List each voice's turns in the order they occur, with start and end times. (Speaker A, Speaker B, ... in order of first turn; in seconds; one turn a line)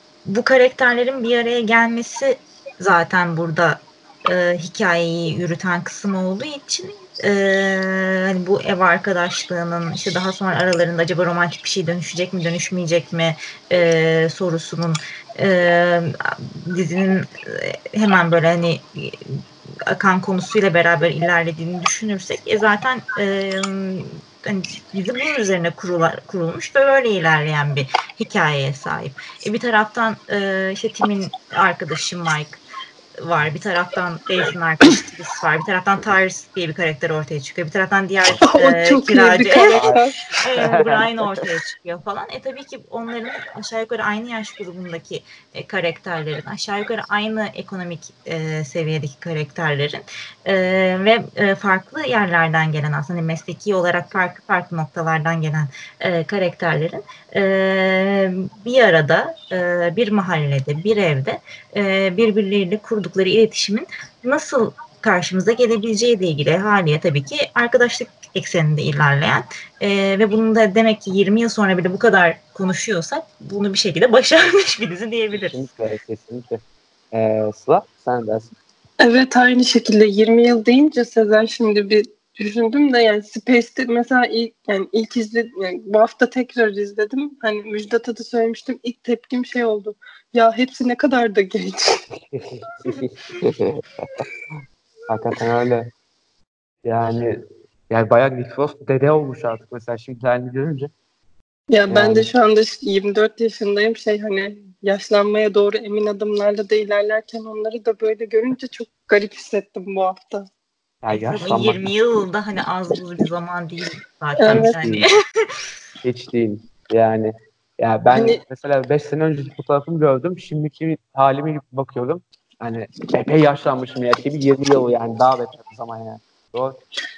Speaker A: 0.2-32.6
Speaker A: 33.2-75.7
Speaker B: 38.5-40.2
Speaker C: 39.7-40.0
Speaker C: 40.6-41.1
Speaker C: 75.4-76.6
Speaker C: 77.1-78.5
Speaker B: 79.0-92.0
Speaker C: 92.3-94.2
Speaker C: 95.1-95.9
Speaker C: 96.8-100.9
Speaker B: 101.7-110.5
Speaker C: 101.9-102.3
Speaker C: 111.0-111.9
Speaker A: 111.1-115.5
Speaker B: 114.4-114.8
Speaker C: 114.5-115.1
Speaker C: 116.0-126.8
Speaker B: 118.1-118.4